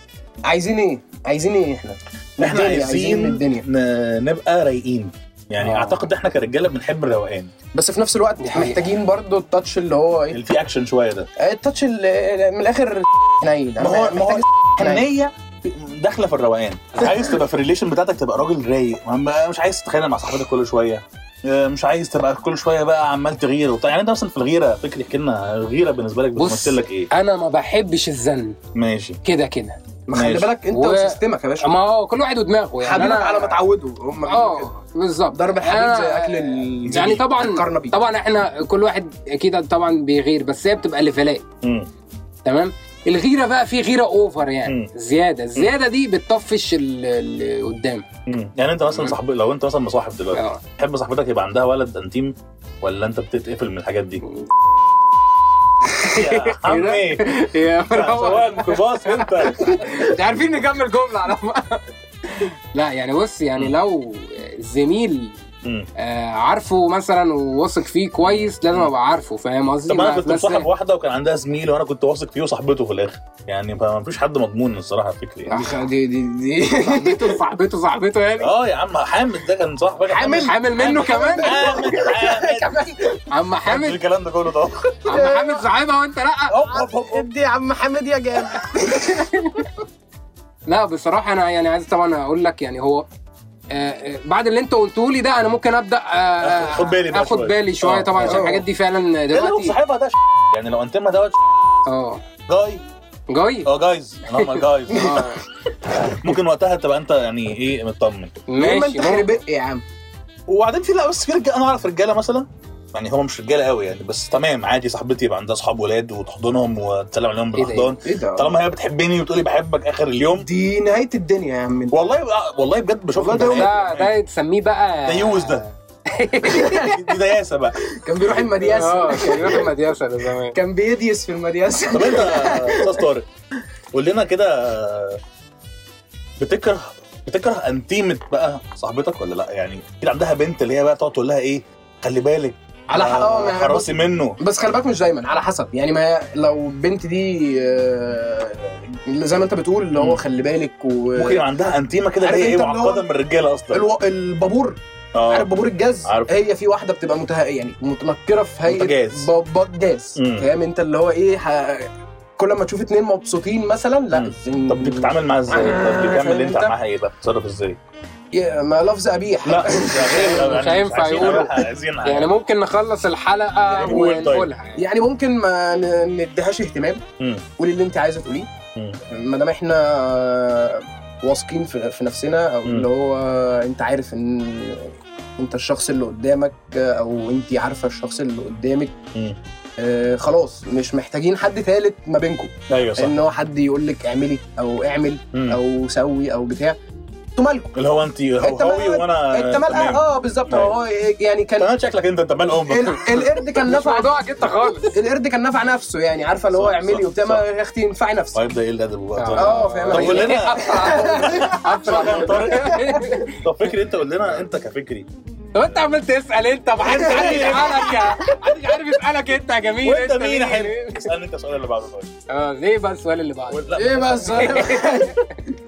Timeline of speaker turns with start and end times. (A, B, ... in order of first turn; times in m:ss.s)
0:00.5-0:03.6 A
0:02.4-0:07.5 B
0:07.7-0:10.4 A
0:08.4-0:08.8 C
0:10.3-0:11.3 B
0:11.4-0:15.1 A
0:13.8-0:27.1 B
0:26.4-0:28.6 C
0:28.8-0:29.2 B
0:29.2-0:29.8 C
0:30.1-0:31.7 A
0:30.2-0:30.5 B
0:30.7-0:33.6 C
0:32.8-0:34.7 A
0:34.3-0:41.4 C
0:35.3-0:38.0 A
0:36.9-0:37.2 B
0:41.6-0:41.9 B
0:42.4-0:48.1 C
0:44.6-0:44.9 B
0:48.3-0:54.2 B
0:48.9-0:49.2 C
0:50.3-0:50.6 C
0:56.0-1:05.4 C
0:56.0-0:57.3 B
0:57.9-1:00.0 B
1:06.0-1:10.7 C
1:08.2-1:08.9 B
1:09.9-1:15.5 B
1:15.5-1:15.8 C
1:15.5-1:17.4 A
1:16.8-1:18.5 C
1:18.4-1:22.7 B
1:20.1-1:23.2 A
1:20.3-1:21.6 C
1:23.3-1:24.0 C
1:23.7-1:24.9 B
1:25.0-1:26.6 C
1:25.1-1:25.7 A
1:26.5-1:29.2 A
1:28.9-1:29.6 C
1:30.7-1:33.1 C
1:33.7-1:39.8 C
1:36.4-1:38.6 B
1:39.3-1:41.4 B
1:41.9-1:42.2 C
1:42.5-1:42.8 B
1:43.3-1:43.7 C
1:43.6-1:45.1 B
1:44.3-1:45.4 C
1:44.9-1:45.4 A
1:46.1-1:48.4 B
1:48.5-1:49.4 C
1:48.6-1:49.8 A
1:50.5-2:00.5 B
1:57.6-1:57.9 C
1:58.0-1:58.5 A
2:00.4-2:02.0 A
2:01.9-2:04.2 B
2:03.2-2:03.7 A
2:03.4-2:06.8 C
2:05.0-2:05.6 B
2:06.5-2:06.9 A
2:06.7-2:09.7 B
2:08.0-2:09.7 A
2:08.7-2:10.6 C
2:10.5-2:13.0 A
2:11.9-2:13.3 B
2:13.9-2:15.2 B
2:16.4-2:24.4 B
2:22.9-2:31.4 A
2:30.0-2:30.2 B
2:31.2-2:33.8 B
2:32.2-2:33.0 A
2:33.7-2:34.8 A
2:35.2-2:35.5 B
2:35.3-2:46.8 A
2:36.0-2:36.3 B
2:38.7-2:39.3 B
2:40.2-2:40.5 B
2:44.1-2:47.8 B
2:48.3-2:50.4 A
2:49.4-2:52.4 B
2:50.0-2:54.8 C
2:53.7-2:57.0 A
2:53.7-2:54.5 B
2:57.6-2:58.5 A
2:59.1-3:08.9 A
3:09.8-3:16.8 A
3:12.7-3:13.2 B
3:15.3-3:15.6 B
3:17.4-3:17.7 A
3:17.8-3:20.8 B
3:18.4-3:21.7 A
3:21.6-3:23.3 B
3:22.7-3:24.1 A
3:23.6-3:25.0 C
3:24.9-3:28.4 A
3:26.5-3:27.4 B
3:28.3-3:35.1 B
3:29.2-3:33.4 C
3:29.3-3:31.7 A
3:32.2-3:33.0 A
3:35.6-3:41.1 C
3:36.8-3:38.2 B
3:37.0-3:37.6 A
3:39.8-3:42.1 B
3:42.3-3:45.4 C
3:43.5-3:44.8 B
3:43.8-3:45.1 A